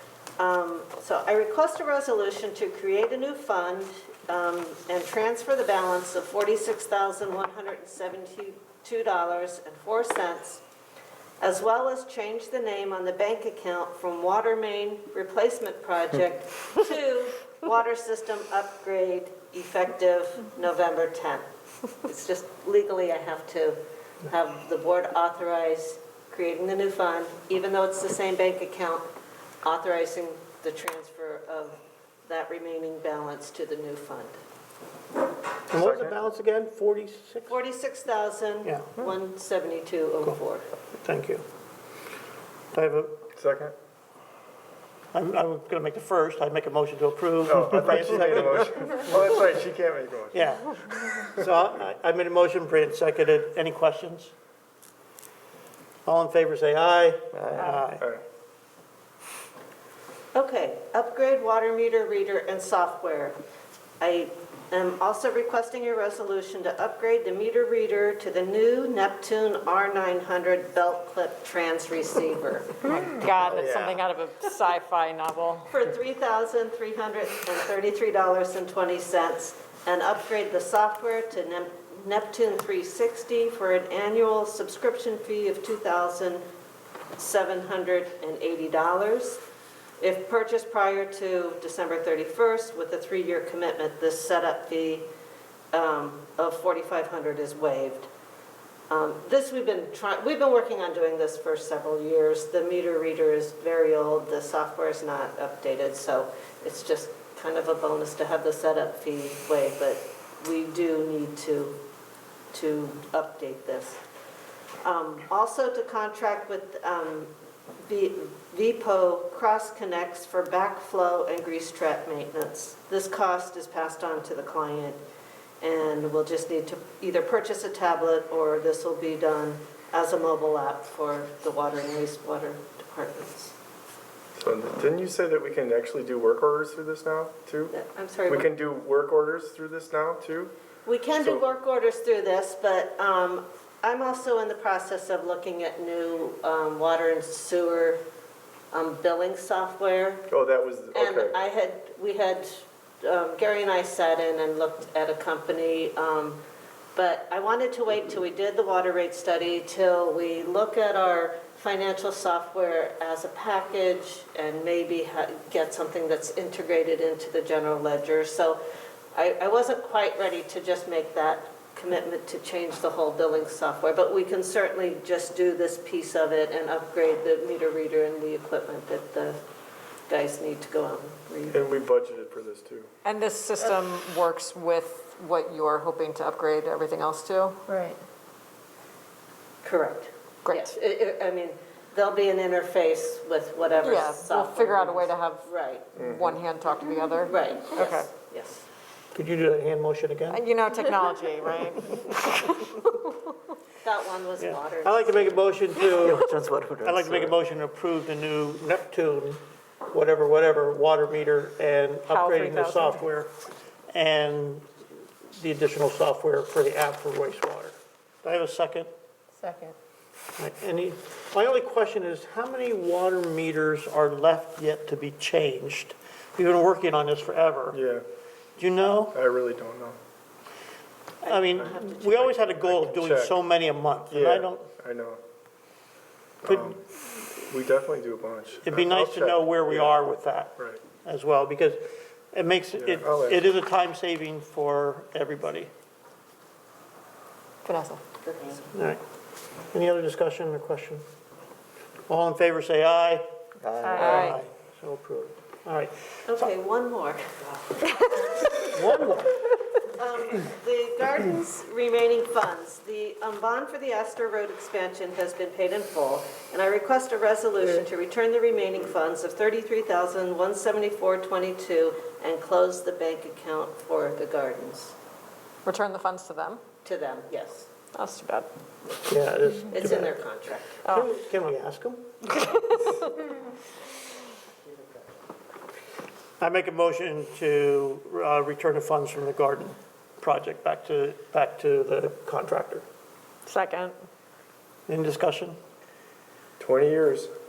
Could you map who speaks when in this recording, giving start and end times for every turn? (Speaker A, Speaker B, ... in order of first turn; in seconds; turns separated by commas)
Speaker A: 0.4-10.6, Speaker A: 11.4-21.4, Speaker A: 22.0-29.1, Speaker A: 29.6-34.4, Speaker B: 35.7-37.6, Speaker C: 35.7-36.1, Speaker A: 37.5-40.6, Speaker B: 41.0-41.4, Speaker B: 42.7-43.2, Speaker C: 43.3-43.7, Speaker B: 45.1-49.4, Speaker C: 47.5-50.4, Speaker B: 50.3-54.3, Speaker B: 56.0-58.1, Speaker C: 57.3-58.2, Speaker A: 60.3-63.4, Speaker A: 64.0-72.9, Speaker D: 72.8-75.7, Speaker C: 73.4-74.0, Speaker A: 75.7-86.5, Speaker A: 87.2-89.4, Speaker A: 90.0-95.1, Speaker A: 95.7-98.1, Speaker A: 98.9-111.8, Speaker A: 112.5-114.0, Speaker A: 114.8-117.3, Speaker A: 117.8-125.0, Speaker A: 125.6-133.5, Speaker C: 134.3-137.7, Speaker A: 137.7-138.5, Speaker C: 138.3-140.5, Speaker A: 140.8-148.0, Speaker A: 148.7-150.3, Speaker C: 150.3-151.4, Speaker A: 150.9-156.4, Speaker A: 156.9-168.6, Speaker A: 169.1-179.4, Speaker A: 180.1-181.7, Speaker C: 181.5-182.9, Speaker D: 183.0-187.6, Speaker E: 187.7-188.0, Speaker A: 189.6-195.9, Speaker D: 190.4-190.7, Speaker D: 193.8-198.1, Speaker C: 196.0-196.4, Speaker A: 197.3-198.7, Speaker B: 199.1-200.4, Speaker D: 200.3-203.1, Speaker A: 203.8-205.5, Speaker B: 204.4-213.3, Speaker E: 206.1-207.1, Speaker D: 212.1-213.0, Speaker B: 213.9-214.7, Speaker B: 215.3-218.9, Speaker E: 219.4-219.7, Speaker B: 220.4-227.8, Speaker C: 227.7-228.0, Speaker B: 228.6-229.2, Speaker C: 229.1-230.0, Speaker A: 231.2-232.3, Speaker B: 231.2-234.7, Speaker C: 232.2-233.4, Speaker C: 234.1-235.2, Speaker C: 236.4-236.8, Speaker B: 236.4-236.8, Speaker C: 237.5-239.9, Speaker B: 238.6-245.7, Speaker C: 242.7-243.4, Speaker D: 247.6-248.0, Speaker A: 248.2-248.7, Speaker B: 248.7-249.0, Speaker B: 249.7-251.0, Speaker B: 252.1-253.3, Speaker E: 253.7-254.4, Speaker D: 253.8-254.4, Speaker B: 253.8-256.5, Speaker A: 256.3-258.4, Speaker B: 258.7-259.4, Speaker A: 259.8-274.9, Speaker D: 275.6-276.6, Speaker A: 276.8-277.7, Speaker D: 277.9-278.5, Speaker B: 279.1-280.2, Speaker A: 279.7-280.8, Speaker B: 280.8-282.1, Speaker D: 282.3-283.0, Speaker B: 286.4-292.8, Speaker D: 293.4-293.9, Speaker B: 294.9-295.6, Speaker C: 296.6-297.3